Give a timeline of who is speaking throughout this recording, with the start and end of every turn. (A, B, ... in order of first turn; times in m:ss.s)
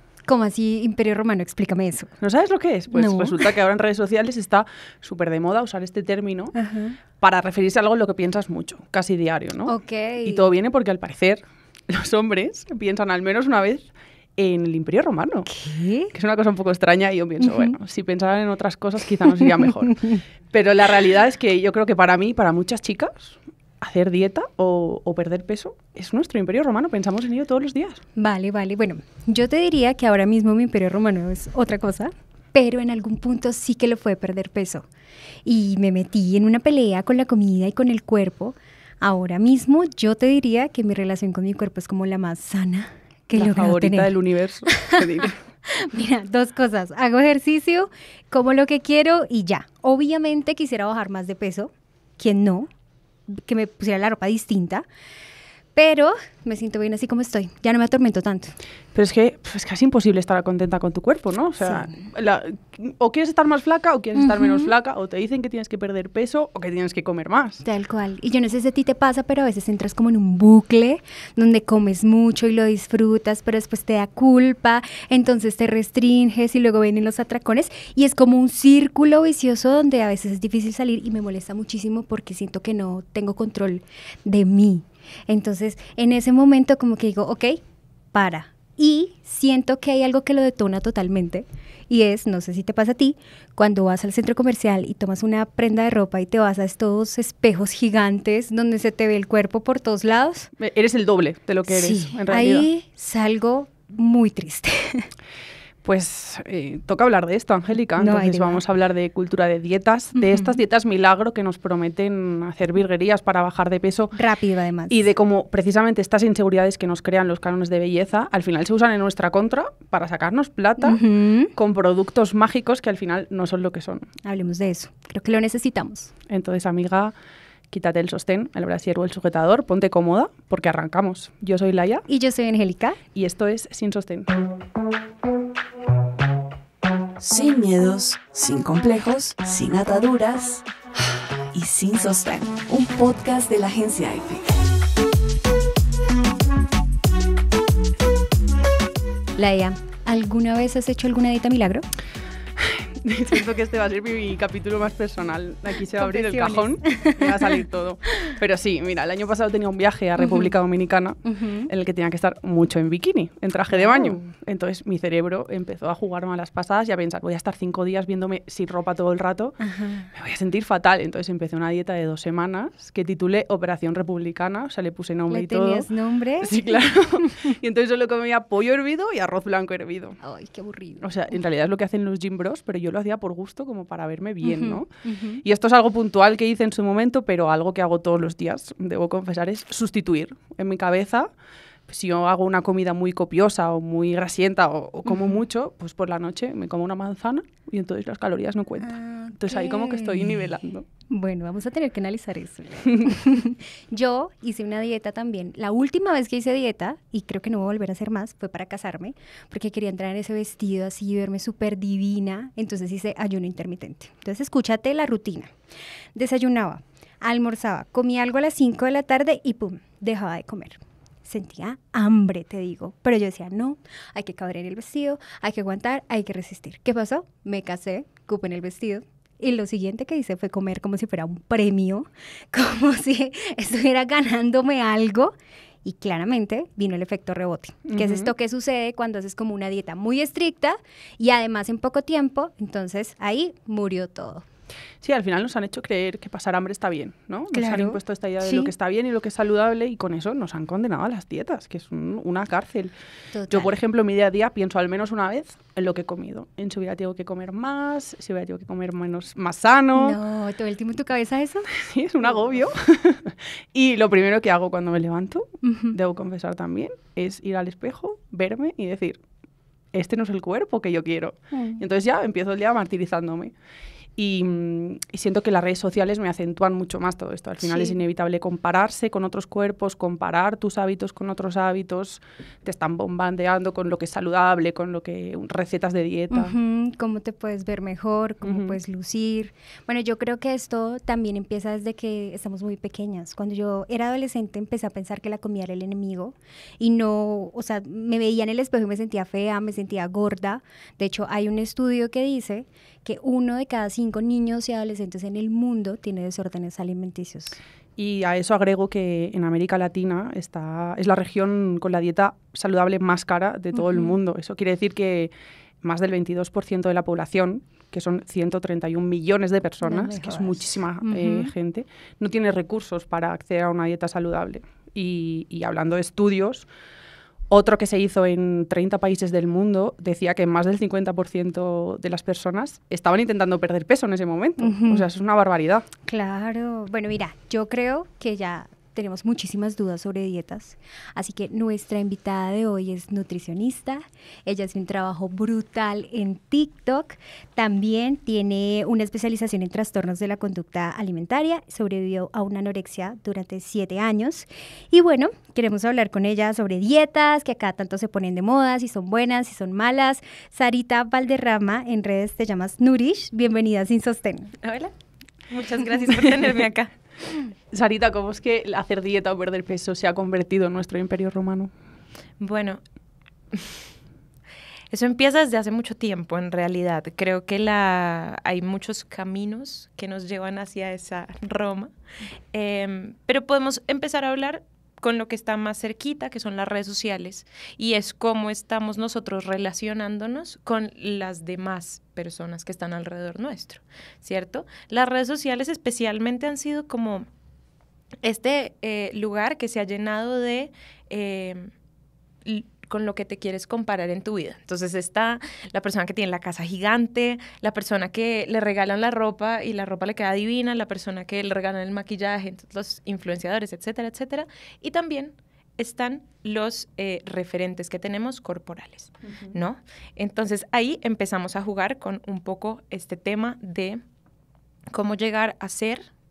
0:00.3-0:02.1 A
0:02.2-0:06.5 B
0:02.9-0:03.5 A
0:06.6-0:07.0 A
0:07.2-0:15.5 B
0:09.7-0:10.5 A
0:15.5-0:16.1 A
0:16.1-0:28.0 B
0:17.4-0:17.8 A
0:19.2-0:20.2 A
0:28.2-0:34.9 A
0:35.4-0:44.2 A
0:43.3-0:45.4 B
0:44.7-0:52.7 A
0:53.3-0:54.9 A
0:55.8-0:58.6 A
0:59.0-1:07.6 B
1:01.6-1:02.0 A
1:04.2-1:04.7 A
1:07.6-1:27.6 A
1:28.1-1:40.5 A
1:40.6-1:42.7 B
1:41.7-1:45.1 A
1:45.8-1:54.2 B
1:48.0-1:48.6 A
1:50.2-1:50.6 A
1:54.2-1:55.0 A
1:54.9-2:01.0 B
2:00.8-2:01.5 A
2:01.6-2:04.1 B
2:04.2-2:06.1 A
2:06.3-2:07.2 B
2:07.7-2:12.0 B
2:12.1-2:13.0 A
2:13.2-2:14.3 B
2:17.2-2:20.7 C
2:21.5-2:24.5 C
2:29.4-2:31.8 A
2:32.6-2:49.6 B
2:36.0-2:37.6 A
2:40.2-2:40.5 A
2:41.2-2:41.7 A
2:43.7-2:44.2 A
2:49.6-2:50.1 A
2:50.1-2:55.9 B
2:55.3-2:57.5 A
2:56.4-3:00.2 B
3:00.2-3:01.0 A
3:01.0-3:04.9 B
3:04.4-3:05.4 A
3:05.4-3:11.3 B
3:11.9-3:20.9 B
3:15.1-3:15.4 A
3:18.8-3:20.5 A
3:21.1-3:35.5 A
3:36.2-4:04.5 A
3:57.9-3:58.3 B
4:05.0-4:12.9 B
4:07.5-4:08.7 A
4:13.3-4:13.8 A
4:13.5-4:20.2 B
4:20.0-4:21.7 A
4:21.8-4:29.2 B
4:25.6-4:26.0 A
4:29.9-4:33.5 B
4:31.5-4:31.8 A
4:34.2-4:46.6 B
4:37.6-4:38.0 A
4:46.3-5:07.6 A
4:48.4-4:48.8 B
5:08.0-5:26.7 B
5:13.7-5:14.2 A
5:19.8-5:21.5 A
5:27.5-5:35.8 B
5:34.6-5:35.1 A
5:36.1-6:04.6 A
6:04.6-6:04.9 D
6:05.5-6:06.9 D
6:07.7-6:11.7 B
6:12.4-6:12.8 D
6:14.9-6:21.9 D
6:22.5-6:37.3 D
6:38.2-6:41.7 D
6:42.4-7:04.0 D
7:04.9-7:06.0 D